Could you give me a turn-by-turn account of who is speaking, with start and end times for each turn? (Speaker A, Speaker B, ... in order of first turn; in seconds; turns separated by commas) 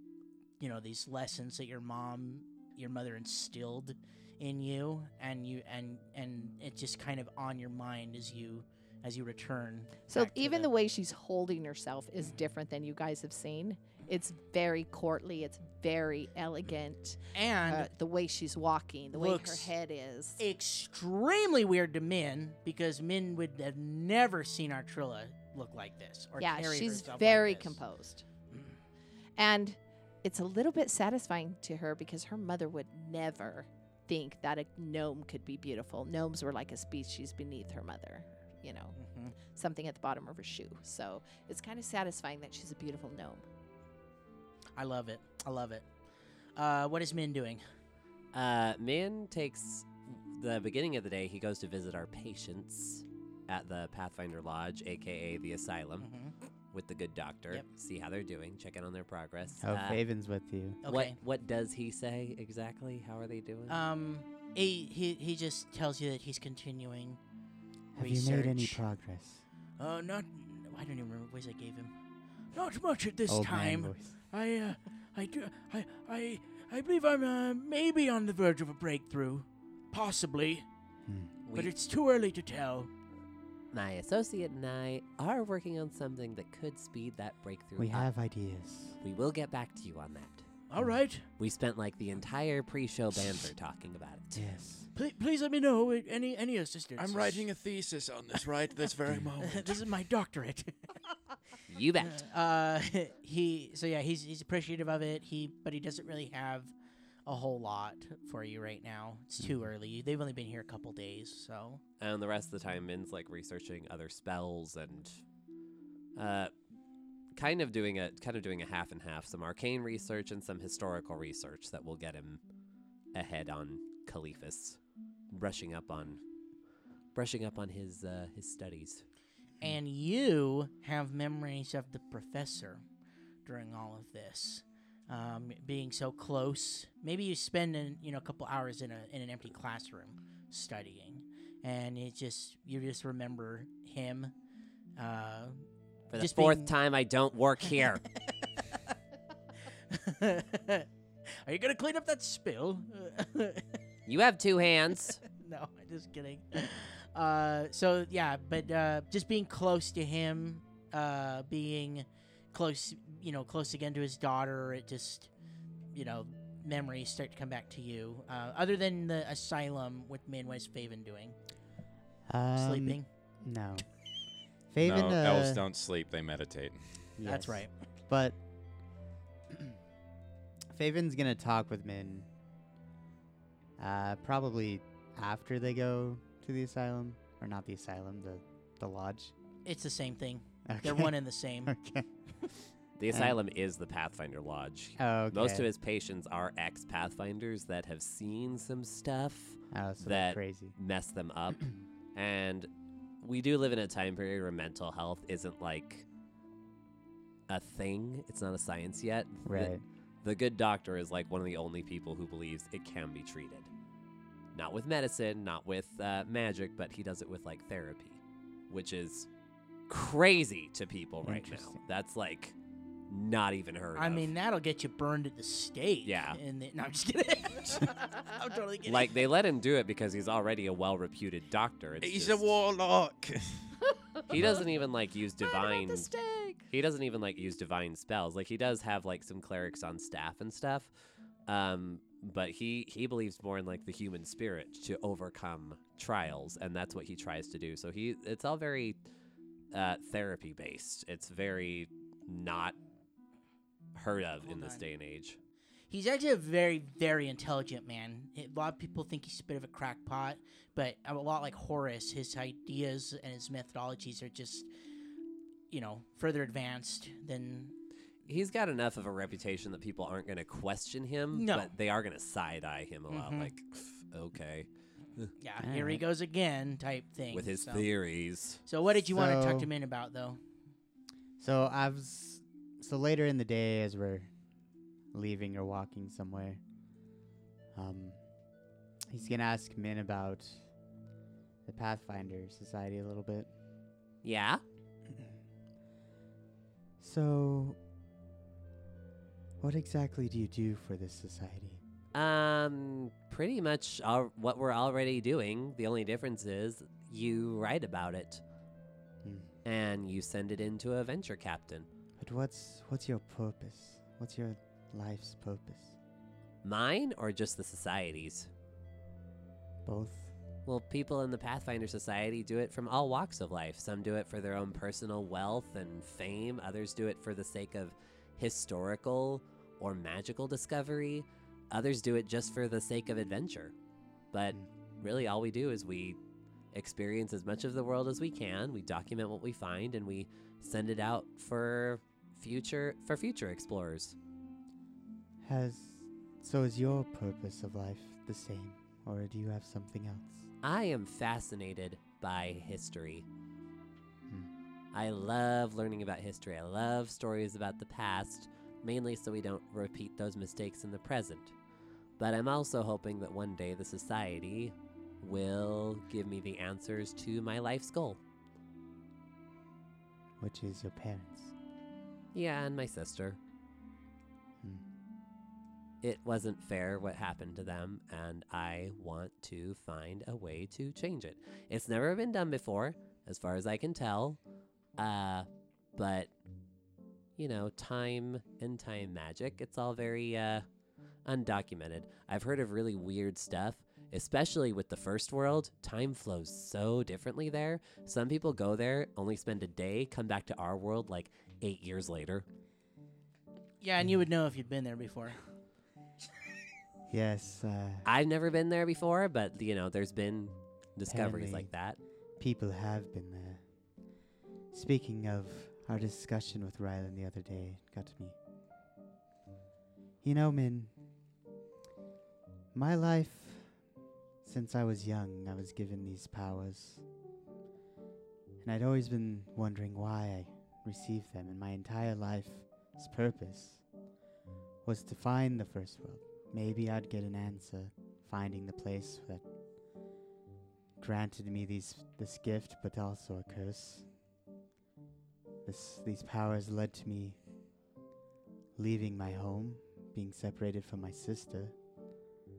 Speaker A: 0.6-10.7, Speaker B: 10.1-20.4, Speaker A: 17.3-17.9, Speaker A: 19.1-19.7, Speaker A: 20.4-27.8, Speaker B: 26.4-28.2, Speaker A: 28.5-28.8, Speaker B: 29.4-43.4, Speaker A: 39.0-39.4, Speaker A: 44.8-45.9, Speaker A: 46.5-47.6, Speaker C: 48.3-56.1, Speaker A: 56.0-56.3, Speaker C: 56.7-60.0, Speaker D: 59.6-60.8, Speaker A: 60.8-61.1, Speaker C: 60.8-63.8, Speaker A: 63.7-67.2, Speaker D: 67.9-69.4, Speaker A: 68.0-68.8, Speaker A: 69.8-71.9, Speaker A: 72.5-80.6, Speaker D: 73.3-74.1, Speaker D: 81.0-81.3, Speaker C: 81.5-81.7, Speaker A: 81.5-82.9, Speaker C: 83.7-88.1, Speaker D: 87.8-89.0, Speaker C: 89.0-90.5, Speaker A: 90.7-91.2, Speaker C: 91.4-94.5, Speaker D: 94.3-94.9, Speaker A: 94.9-97.5, Speaker E: 97.0-99.9, Speaker A: 99.4-100.9, Speaker C: 101.7-102.2, Speaker A: 102.0-106.7, Speaker A: 107.2-111.8, Speaker D: 109.4-109.7, Speaker C: 112.0-115.2, Speaker C: 116.2-116.5, Speaker C: 117.3-122.4, Speaker C: 123.1-124.8, Speaker C: 125.3-126.2, Speaker C: 127.1-129.0, Speaker A: 129.6-132.8, Speaker A: 133.4-144.3, Speaker A: 145.0-146.7, Speaker C: 146.1-148.0, Speaker A: 148.4-148.8, Speaker A: 149.9-150.9, Speaker A: 151.4-153.8, Speaker C: 154.1-155.2, Speaker A: 155.3-165.3, Speaker A: 165.9-171.3, Speaker D: 172.3-173.8, Speaker A: 172.6-173.1, Speaker D: 174.7-175.6, Speaker E: 174.8-177.1, Speaker D: 177.2-178.4, Speaker A: 177.2-177.7, Speaker D: 180.7-182.3, Speaker D: 183.8-189.3, Speaker A: 189.6-191.7, Speaker D: 190.7-192.1, Speaker C: 193.0-202.7, Speaker D: 195.0-195.7, Speaker D: 199.7-200.7, Speaker C: 203.2-206.1, Speaker C: 207.5-213.7, Speaker D: 209.4-209.8, Speaker C: 214.5-219.3, Speaker C: 219.9-222.5, Speaker D: 221.2-221.8, Speaker C: 223.1-224.3, Speaker A: 223.9-229.2, Speaker C: 226.0-226.4, Speaker C: 228.8-232.6, Speaker E: 232.0-233.7, Speaker C: 234.3-236.1, Speaker B: 235.4-236.6, Speaker C: 236.7-240.9, Speaker C: 241.5-249.0, Speaker C: 249.7-252.8, Speaker C: 253.9-255.4, Speaker A: 254.4-254.8, Speaker A: 255.9-264.7, Speaker A: 265.7-267.7, Speaker C: 268.3-275.3, Speaker A: 271.3-271.7, Speaker A: 273.1-273.5, Speaker A: 275.4-277.9, Speaker D: 275.6-276.0, Speaker C: 277.3-278.6, Speaker A: 278.6-280.4, Speaker D: 279.1-279.7, Speaker D: 281.4-284.3, Speaker D: 285.1-286.6, Speaker D: 287.7-288.2, Speaker D: 289.1-290.6, Speaker D: 291.6-293.5, Speaker C: 294.2-294.6, Speaker D: 295.1-295.4, Speaker D: 297.0-297.8, Speaker D: 299.6-301.8, Speaker C: 302.1-308.4, Speaker D: 309.2-309.5, Speaker C: 309.6-311.9, Speaker D: 312.2-315.9, Speaker C: 316.6-318.5, Speaker D: 319.8-320.3, Speaker C: 320.6-333.7, Speaker C: 334.3-336.2, Speaker C: 336.7-344.1, Speaker D: 345.4-350.4, Speaker C: 350.6-353.2, Speaker C: 354.9-361.5, Speaker C: 362.2-368.2, Speaker D: 370.4-371.5, Speaker C: 372.3-373.4, Speaker C: 376.0-384.4, Speaker C: 385.0-386.3, Speaker C: 387.4-390.6, Speaker C: 391.2-402.4, Speaker A: 403.8-405.4, Speaker D: 407.1-408.1, Speaker C: 408.0-412.0, Speaker D: 411.1-411.7, Speaker D: 412.4-413.6, Speaker D: 414.7-418.3, Speaker D: 420.2-420.9, Speaker D: 422.7-423.8, Speaker D: 424.4-427.0, Speaker D: 428.6-433.9, Speaker D: 434.8-439.4, Speaker D: 441.0-444.1, Speaker D: 445.6-447.4, Speaker D: 448.7-451.7